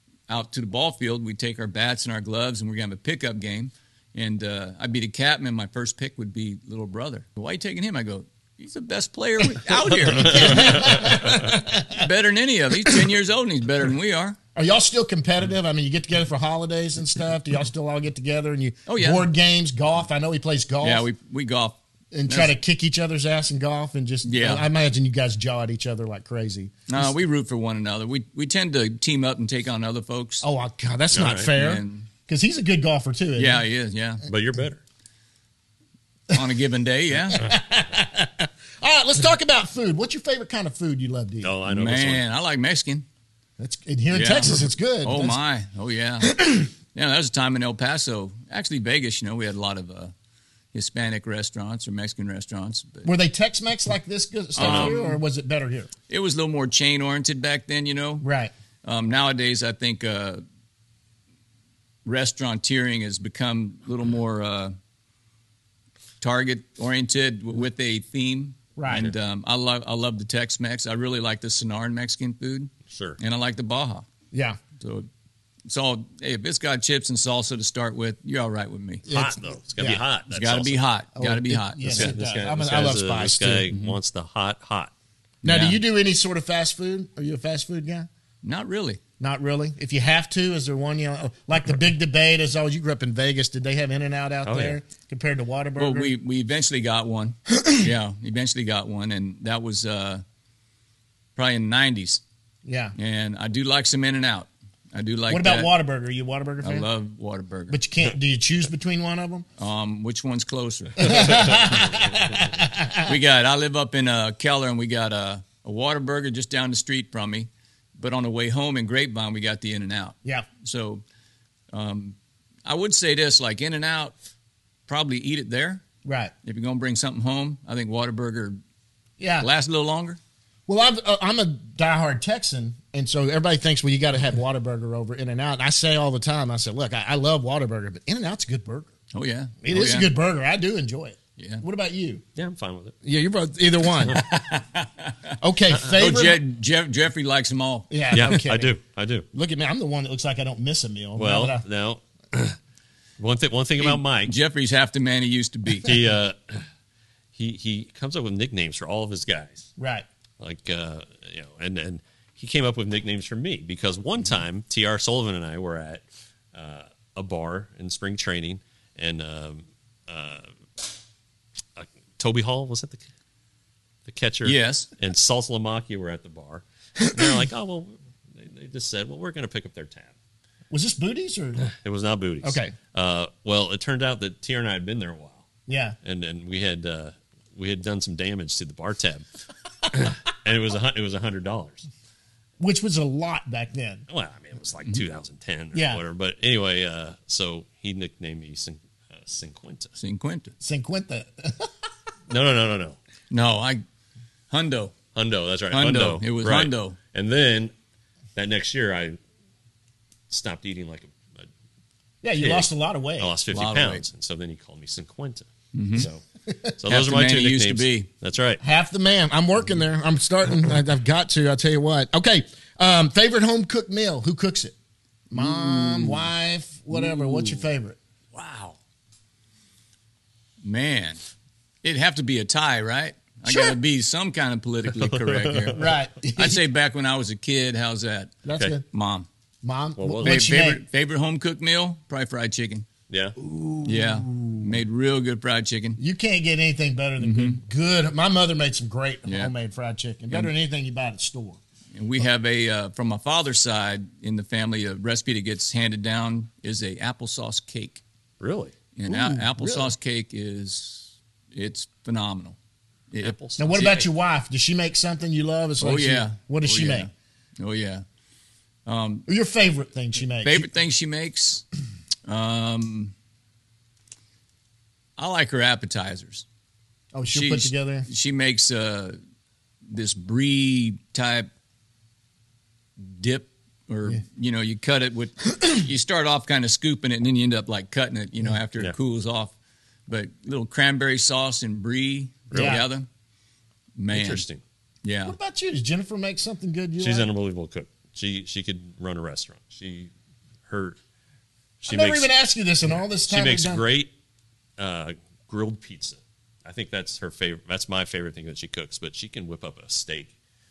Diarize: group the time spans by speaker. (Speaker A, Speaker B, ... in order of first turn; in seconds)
Speaker A: 0.3-11.1, 11.9-14.4, 18.9-19.3, 20.8-22.5, 24.2-24.7, 26.9-30.4, 31.6-32.1, 33.4-34.2, 36.3-37.5, 41.7-43.0, 44.1-46.3, 46.9-50.1, 50.7-53.1, 54.5-55.2, 56.1-58.2, 58.8-60.4, 62.0-64.7, 66.2-74.0, 74.8-75.1, 75.7-79.0, 80.3-82.2, 83.7-84.0, 85.4-85.8, 88.4-89.0, 95.8-100.2, 101.3-102.2, 103.0-105.7, 106.6-107.8, 109.6-111.3, 113.0-121.0, 121.7-124.1, 124.9-125.8, 126.4-128.6, 129.4-130.2, 139.1-140.1, 141.4-141.6, 144.1-148.3, 153.8-155.9, 174.4-174.9, 200.0-200.5, 203.3-203.8, 204.5-204.9, 205.7-207.0, 213.5-214.0, 215.7-216.1, 216.8-218.1, 225.3-226.3, 226.9-227.6, 228.3-228.7, 230.6-231.2, 231.8-235.8, 236.3-238.3, 238.9-239.3, 240.2-242.8, 243.8-246.0, 247.2-247.6, 249.2-249.5, 251.9-258.0, 258.9-262.6, 263.1-263.9, 265.8-268.0, 268.9-269.3, 270.4-271.6, 272.2-273.1, 275.2-276.4, 277.3-279.2, 279.9-281.5, 283.0-289.5, 290.1-293.1, 293.9-294.4, 295.0-295.4
Speaker B: 9.9-12.1, 14.5-21.1, 22.1-27.1, 30.4-33.6, 37.3-41.5, 43.6-45.4, 46.2-46.7, 53.0-55.9, 58.2-58.5, 68.8-69.1, 74.3-74.6, 79.1-80.0, 81.2-83.7, 85.4-88.1, 89.2-96.1, 97.6-97.9, 102.6-102.9, 105.3-106.8, 107.7-109.5, 111.0-113.1, 126.0-126.3, 129.2-129.5, 130.7-138.9, 139.6-142.2, 143.0-144.3, 145.4-146.4, 147.9-148.7, 149.3-151.6, 159.8-160.0, 180.7-181.7, 182.4-182.7, 185.7-185.9, 192.6-194.0, 195.7-196.0, 200.6-201.7, 212.2-213.3, 218.6-224.7, 225.3-228.0, 233.5-233.8, 235.8-236.6, 238.4-238.8, 239.6-240.8, 243.4-244.8, 246.0-251.6, 259.1-259.9, 263.6-267.1, 269.3-270.7, 277.1-278.1, 292.5-292.8, 295.2-297.3, 301.9-303.8
Speaker C: 10.6-10.9, 31.1-31.5, 34.2-34.8, 41.4-42.2, 54.6-55.0, 72.9-73.2, 79.1-80.8, 81.8-84.9, 94.4-94.8, 142.3-143.0, 148.1-149.2, 151.2-152.6, 153.2-154.3, 155.8-156.6, 157.3-159.7, 160.4-170.5, 171.8-173.1, 174.1-180.1, 181.6-185.5, 186.0-189.2, 189.9-191.9, 194.1-199.9, 202.3-203.0, 205.1-207.7, 208.3-209.2, 210.3-211.5, 212.4-216.2, 216.8-218.6, 235.0-235.9, 240.0-240.5, 243.1-243.3, 258.4-258.7, 263.2-264.1, 292.5-292.8, 294.1-294.6, 297.0-300.1, 300.7-301.0, 301.8-302.3, 303.2-304.1, 304.8-310.3